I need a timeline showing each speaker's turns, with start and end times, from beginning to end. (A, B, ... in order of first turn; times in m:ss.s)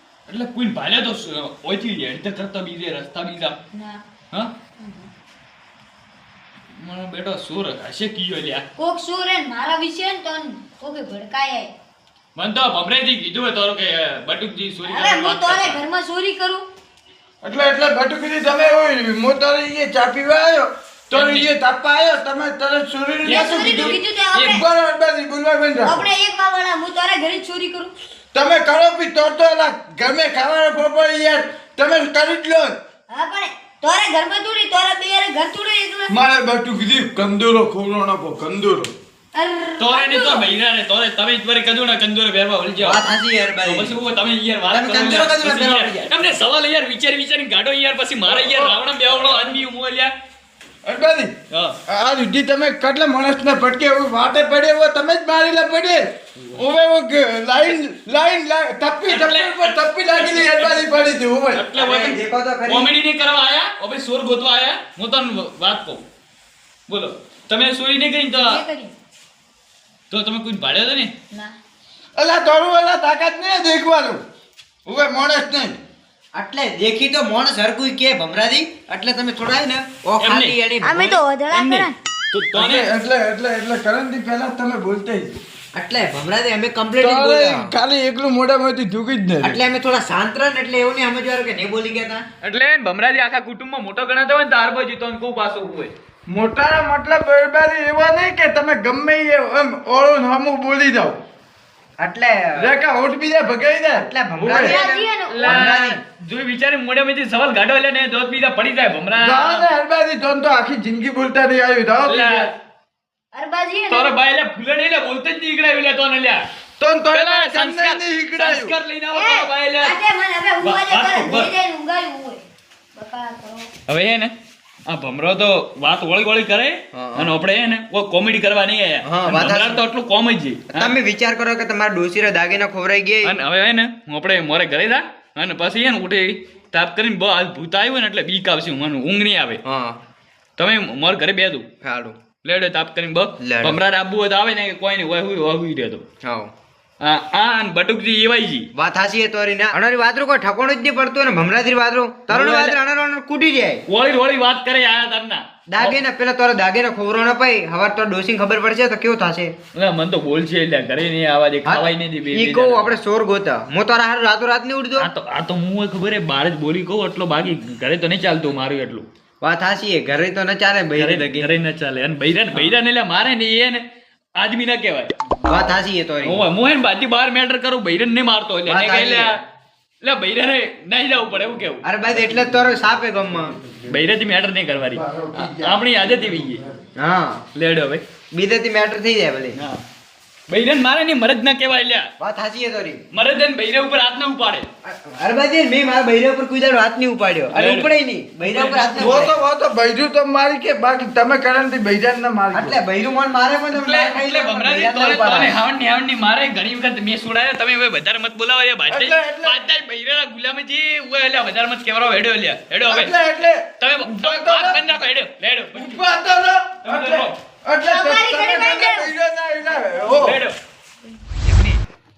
0:00.3-0:03.6 A
0:03.7-0:04.0 B
0:04.8-0:05.1 B
0:06.8-0:08.6 A
0:08.8-0:11.7 B
0:12.4-0:15.8 A
0:14.9-0:16.6 B
0:17.4-0:26.0 C
0:21.1-0:21.5 A
0:23.2-0:24.0 A
0:23.3-0:24.6 B
0:25.8-0:27.9 B
0:28.3-0:32.8 C
0:33.1-0:36.2 B
0:36.1-0:38.9 C
0:39.4-0:40.5 B
0:39.8-0:43.0 A
0:42.8-0:44.0 D
0:43.6-0:50.1 A
0:44.7-0:46.1 D
0:48.3-0:48.8 C
0:50.8-0:51.4 C
0:51.5-0:51.8 A
0:51.9-1:01.7 C
0:59.1-1:00.9 A
1:01.5-1:06.0 A
1:01.7-1:02.9 D
1:06.9-1:08.6 A
1:08.4-1:08.9 B
1:10.1-1:11.1 A
1:12.2-1:14.2 C
1:14.9-1:15.8 C
1:16.3-1:21.2 D
1:20.2-1:20.6 A
1:20.8-1:21.9 B
1:21.5-1:22.9 A
1:22.5-1:25.4 C
1:25.8-1:27.7 D
1:27.0-1:29.6 C
1:29.4-1:32.3 D
1:32.4-1:35.9 A
1:36.3-1:41.2 C
1:42.0-1:42.7 D
1:42.6-1:44.8 C
1:44.0-1:46.0 D
1:44.5-1:45.8 B
1:45.3-1:49.7 A
1:49.2-1:52.5 C
1:52.0-1:52.5 A
1:53.3-1:54.2 B
1:53.9-1:56.4 A
1:56.8-1:58.8 C
1:57.1-2:00.0 A
1:59.1-2:03.7 B
2:00.6-2:01.5 A
2:03.9-2:04.3 A
2:04.9-2:11.0 A
2:06.9-2:07.3 D
2:09.0-2:09.8 D
2:10.7-2:13.3 D
2:13.2-2:19.6 A
2:19.6-2:20.0 D
2:20.6-2:21.7 A
2:21.8-2:22.2 D
2:22.4-2:26.0 A
2:23.4-2:23.8 D
2:26.2-2:26.5 D
2:27.0-2:28.7 A
2:28.8-2:33.8 D
2:32.3-2:32.8 A
2:33.9-2:36.0 A
2:35.7-2:39.6 D
2:39.7-2:43.0 A
2:41.6-2:45.1 D
2:45.0-2:49.1 A
2:49.4-2:51.4 D
2:51.0-2:53.8 A
2:54.4-2:55.1 A
2:55.4-2:56.4 D
2:56.2-2:59.4 A
2:58.7-2:59.4 D
3:00.0-3:01.8 A
3:01.8-3:03.5 D
3:03.6-3:03.9 C
3:03.9-3:06.6 A
3:04.9-3:06.8 C
3:07.0-3:07.4 D
3:07.6-3:08.0 A
3:08.3-3:09.6 D
3:09.6-3:09.8 A
3:10.5-3:12.1 A
3:12.2-3:13.0 D
3:13.1-3:14.7 A
3:14.8-3:19.3 D
3:17.5-3:17.9 A
3:18.4-3:19.3 A
3:19.0-3:22.8 C
3:22.5-3:25.6 D
3:23.7-3:33.2 A
3:28.9-3:29.6 C
3:32.9-3:34.8 C
3:33.8-3:36.0 A
3:35.8-3:40.4 C
3:36.8-3:37.4 A
3:37.8-3:39.1 B
3:40.1-3:40.6 A
3:41.4-3:41.8 A